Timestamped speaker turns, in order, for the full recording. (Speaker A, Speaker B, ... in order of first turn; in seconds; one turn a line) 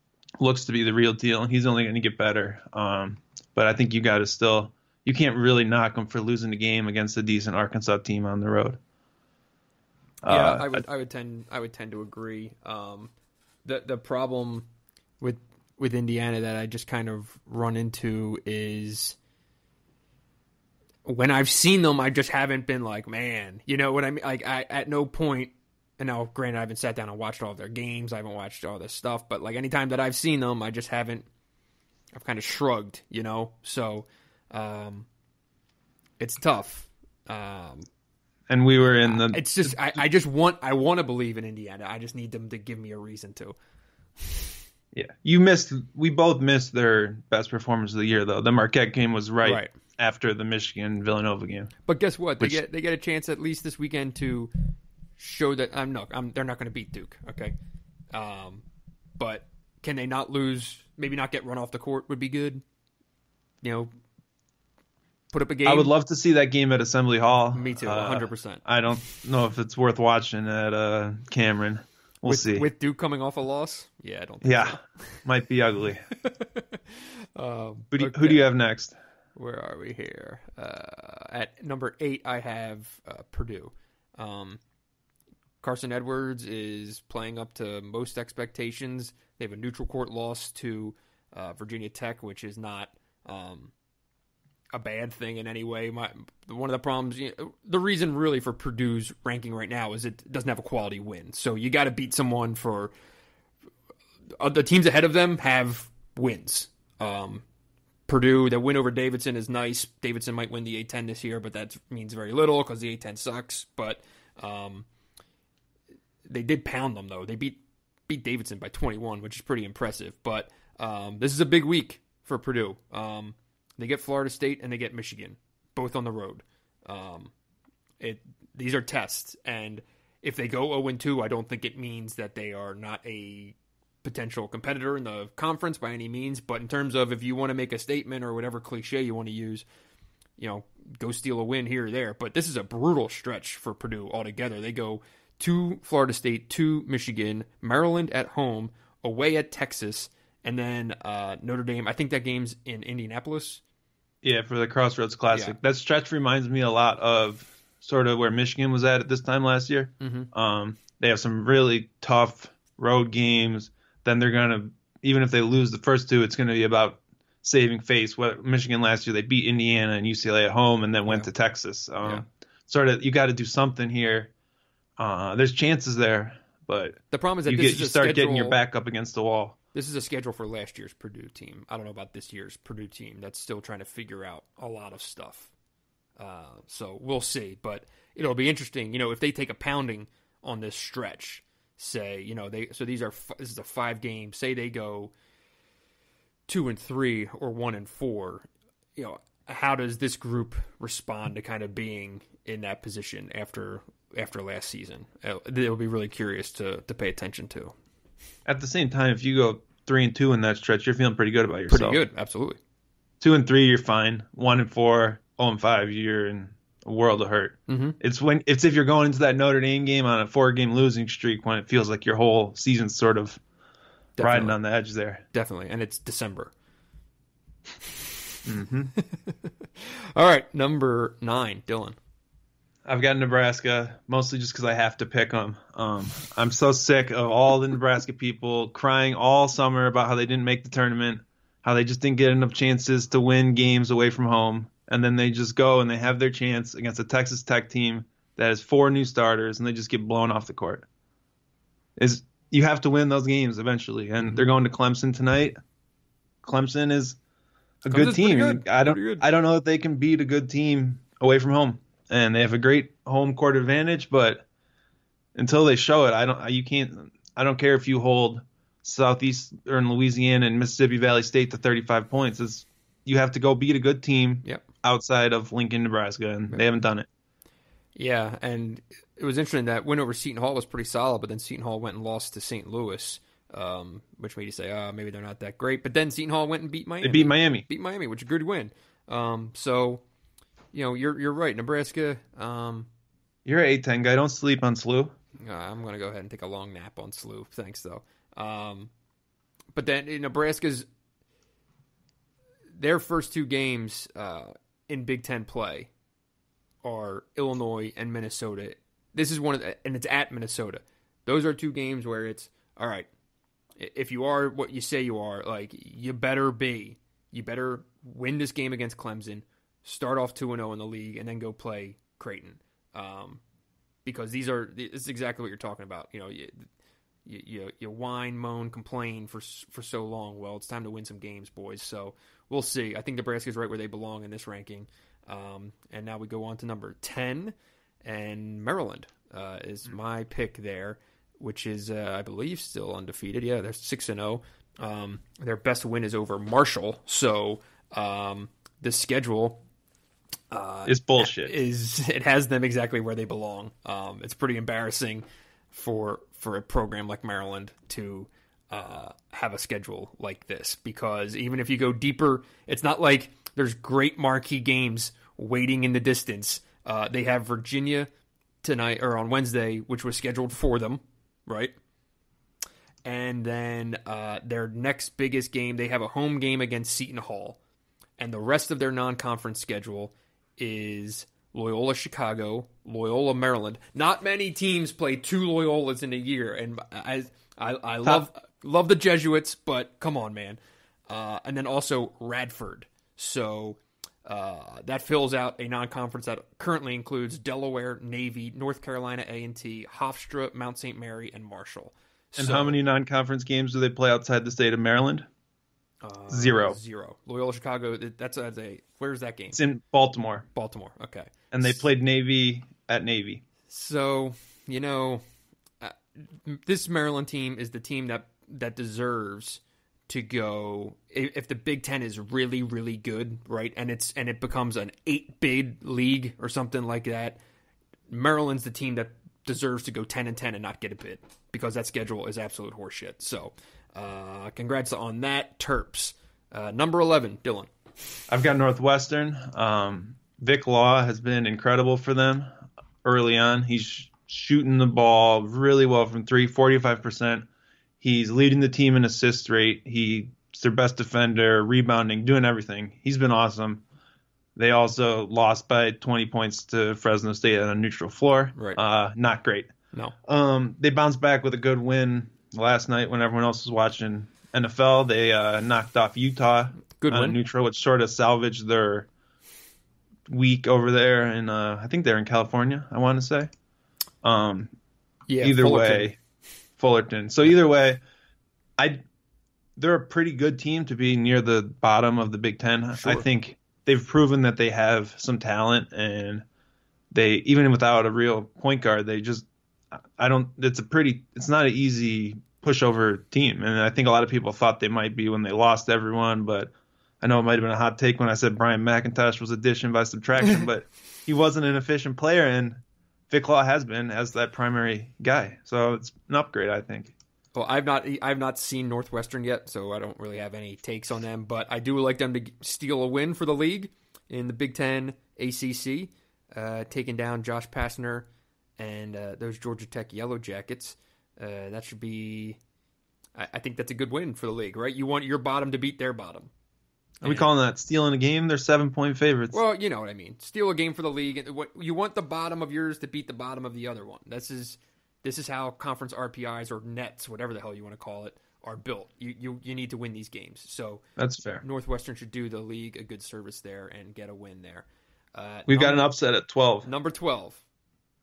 Speaker A: 0.4-8.8
Speaker A: 10.2-10.8
Speaker B: 10.3-13.1
Speaker B: 13.6-14.7
Speaker B: 15.2-19.2
Speaker B: 21.1-31.2
Speaker B: 32.1-35.1
Speaker B: 36.2-37.9
Speaker A: 38.5-40.0
Speaker B: 39.0-43.5
Speaker B: 44.2-44.5
Speaker A: 44.9-51.7
Speaker B: 49.4-49.7
Speaker B: 51.9-54.5
Speaker B: 55.2-57.5
Speaker B: 58.1-58.6
Speaker B: 59.2-62.6
Speaker B: 63.6-63.9
Speaker B: 65.3-65.9
Speaker A: 65.7-72.7
Speaker B: 67.5-68.6
Speaker B: 72.2-75.2
Speaker A: 74.4-76.0
Speaker B: 76.1-78.5
Speaker A: 77.9-78.9
Speaker B: 79.3-84.6
Speaker B: 85.6-93.7
Speaker B: 94.7-102.9
Speaker B: 104.4-107.4
Speaker B: 108.1-114.9
Speaker B: 116.2-127.3
Speaker B: 128.0-139.6
Speaker B: 140.4-153.6
Speaker A: 154.2-174.3
Speaker B: 160.0-160.3
Speaker A: 175.0-179.6
Speaker B: 177.1-178.6
Speaker B: 179.7-185.5
Speaker B: 186.2-195.1
Speaker B: 196.5-207.7
Speaker A: 208.4-212.0
Speaker B: 211.7-212.6
Speaker A: 213.2-223.4
Speaker B: 217.7-218.0
Speaker B: 224.2-224.6
Speaker A: 224.2-225.2
Speaker B: 225.3-226.5
Speaker B: 227.8-228.2
Speaker A: 228.4-228.9
Speaker B: 228.9-231.9
Speaker A: 232.8-250.8
Speaker A: 252.0-255.5
Speaker A: 256.4-257.2
Speaker A: 257.8-264.4
Speaker B: 257.9-259.2
Speaker A: 265.3-277.1
Speaker B: 277.9-290.0
Speaker A: 287.0-287.6
Speaker B: 290.7-292.9
Speaker A: 293.4-295.1
Speaker B: 295.4-298.9
Speaker B: 299.7-300.9
Speaker B: 302.7-305.9
Speaker B: 306.8-313.1
Speaker B: 313.8-323.4
Speaker B: 324.0-326.7
Speaker B: 327.2-349.6
Speaker B: 350.5-368.1
Speaker A: 350.9-351.5
Speaker B: 368.6-371.7
Speaker B: 373.0-377.6
Speaker B: 378.2-402.8
Speaker A: 402.4-405.3
Speaker B: 406.0-409.6
Speaker A: 406.3-406.8
Speaker A: 409.5-410.4
Speaker B: 410.5-411.9
Speaker A: 411.5-413.4
Speaker B: 413.7-415.2
Speaker B: 415.8-427.4
Speaker B: 428.1-437.7
Speaker A: 438.3-442.5
Speaker A: 443.0-447.5
Speaker A: 448.0-453.8
Speaker A: 454.6-459.7
Speaker B: 458.5-458.8
Speaker A: 460.2-469.1
Speaker B: 467.0-467.4
Speaker A: 470.3-473.5
Speaker A: 474.2-474.7
Speaker B: 475.3-476.1
Speaker A: 475.4-476.1
Speaker A: 476.8-478.0
Speaker A: 479.8-486.4
Speaker B: 482.9-483.2
Speaker A: 487.1-489.4
Speaker A: 490.2-507.1
Speaker B: 507.5-518.3
Speaker B: 518.8-522.6
Speaker B: 523.4-526.5
Speaker B: 527.2-527.5
Speaker A: 527.2-529.6
Speaker B: 529.5-541.0
Speaker A: 541.2-541.6
Speaker B: 541.6-546.1
Speaker A: 545.7-546.9
Speaker B: 546.8-547.6